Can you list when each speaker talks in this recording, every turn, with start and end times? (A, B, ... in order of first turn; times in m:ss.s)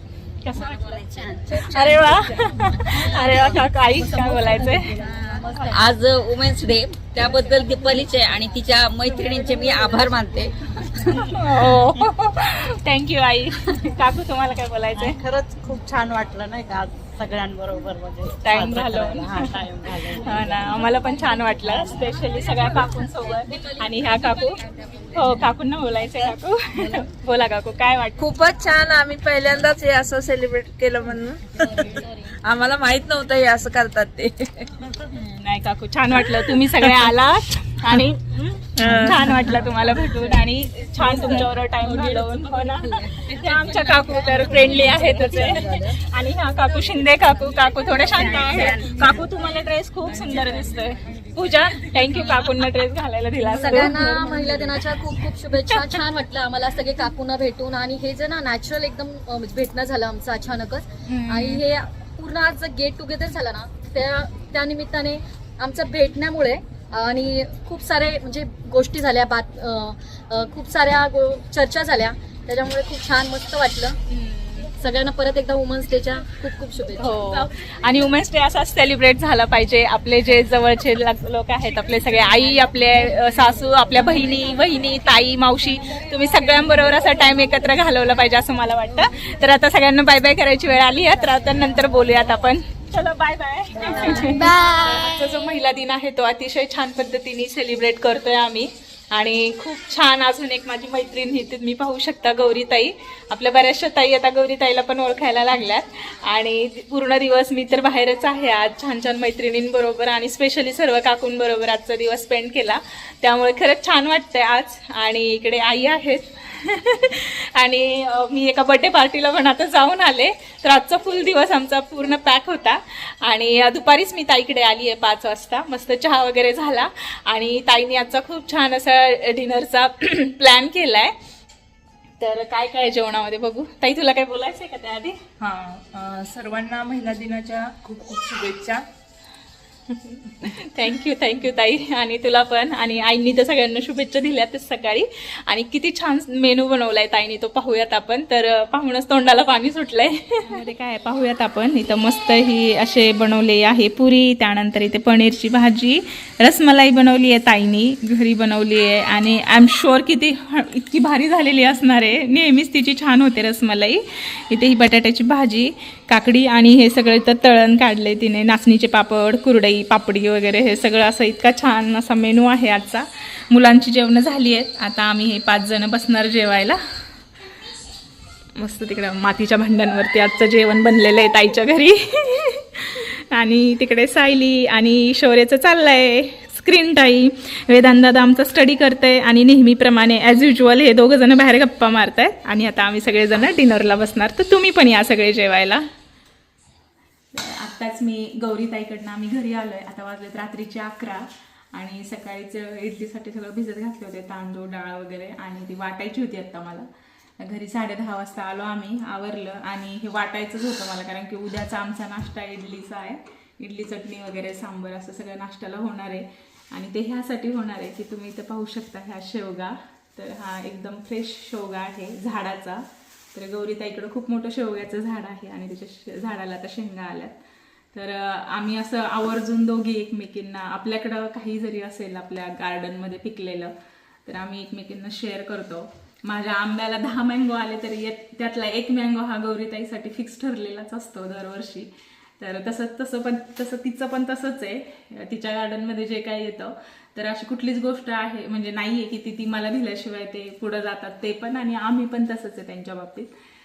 0:00.4-0:00.8 A
0:00.7-0:01.3 B
0:01.5-0:05.0 A
0:01.7-0:02.2 C
0:05.2-0:05.7 C
0:05.6-0:11.3 B
0:11.0-0:15.2 A
0:15.3-0:17.9 D
0:15.8-0:16.3 E
0:18.4-0:28.4 A
0:18.9-0:20.0 E
0:28.2-0:34.8 F
0:35.1-0:55.0 A
0:36.3-0:37.0 F
0:38.8-0:39.6 F
0:43.4-0:44.5 D
0:44.5-0:45.9 C
0:48.2-0:49.0 D
0:53.5-1:14.0 C
0:55.7-0:56.0 A
1:01.0-1:01.6 A
1:14.1-1:14.7 A
1:14.8-1:17.4 C
1:17.0-2:11.1 A
1:34.0-1:34.7 C
2:12.2-2:15.2 A
2:15.5-2:18.8 E
2:17.0-2:18.3 D
2:19.9-2:56.8 A
2:58.6-3:15.8 A
3:17.3-3:26.9 A
3:27.4-3:47.4 A
3:47.9-3:53.7 A
3:54.2-4:13.3 A